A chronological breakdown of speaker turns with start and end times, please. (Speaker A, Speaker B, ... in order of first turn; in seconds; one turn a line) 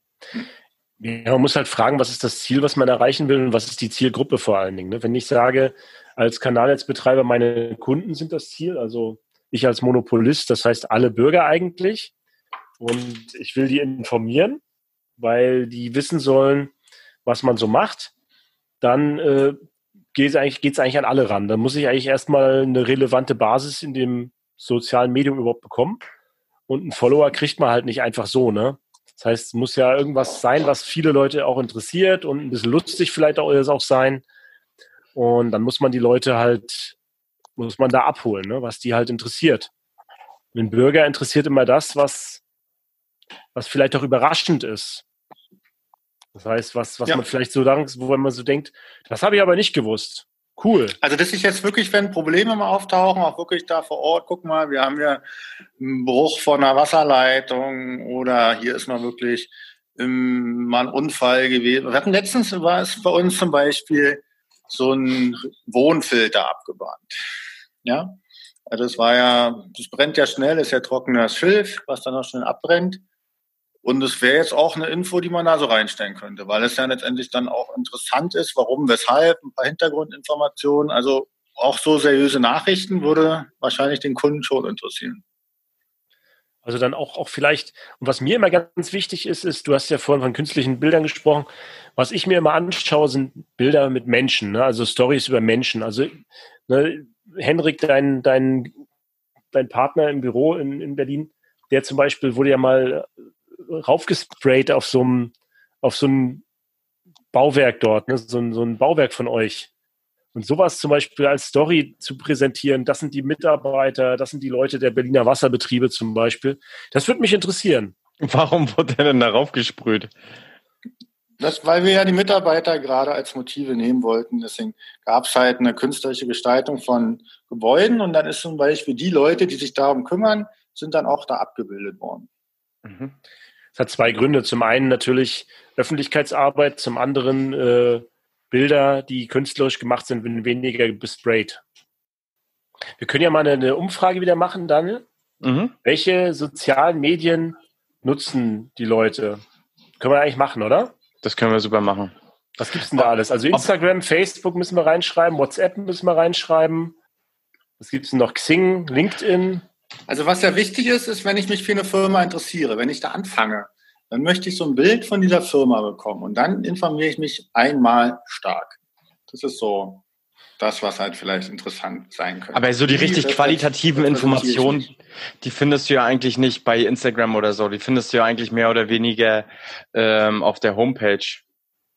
Speaker A: 1.0-12.1
Speaker A: 12.8-14.6
Speaker A: 15.2-16.7
Speaker A: 17.2-18.1
Speaker A: 18.8-19.6
Speaker A: 20.1-26.0
Speaker A: 26.7-34.2
Speaker A: 35.1-37.0
Speaker A: 37.6-39.7
Speaker A: 40.5-42.4
Speaker A: 43.5-45.0
Speaker A: 46.3-51.0
Speaker B: 51.0-55.2
Speaker B: 55.8-67.2
Speaker B: 67.8-68.2
Speaker B: 68.7-73.0
Speaker B: 73.8-85.2
Speaker A: 86.6-98.7
Speaker A: 99.5-103.1
Speaker A: 103.7-106.4
Speaker A: 107.3-109.7
Speaker A: 110.3-117.9
Speaker C: 118.2-120.1
Speaker B: 121.4-132.3
Speaker C: 132.8-133.1
Speaker A: 133.8-141.6
Speaker A: 143.0-145.1
Speaker C: 145.4-145.7
Speaker A: 145.8-149.4
Speaker A: 150.0-150.9
Speaker C: 151.2-152.1
Speaker A: 152.6-156.9
Speaker C: 152.9-153.7
Speaker A: 157.8-159.6
Speaker B: 160.1-168.8
Speaker B: 169.3-170.0
Speaker B: 170.6-174.9
Speaker C: 172.5-181.4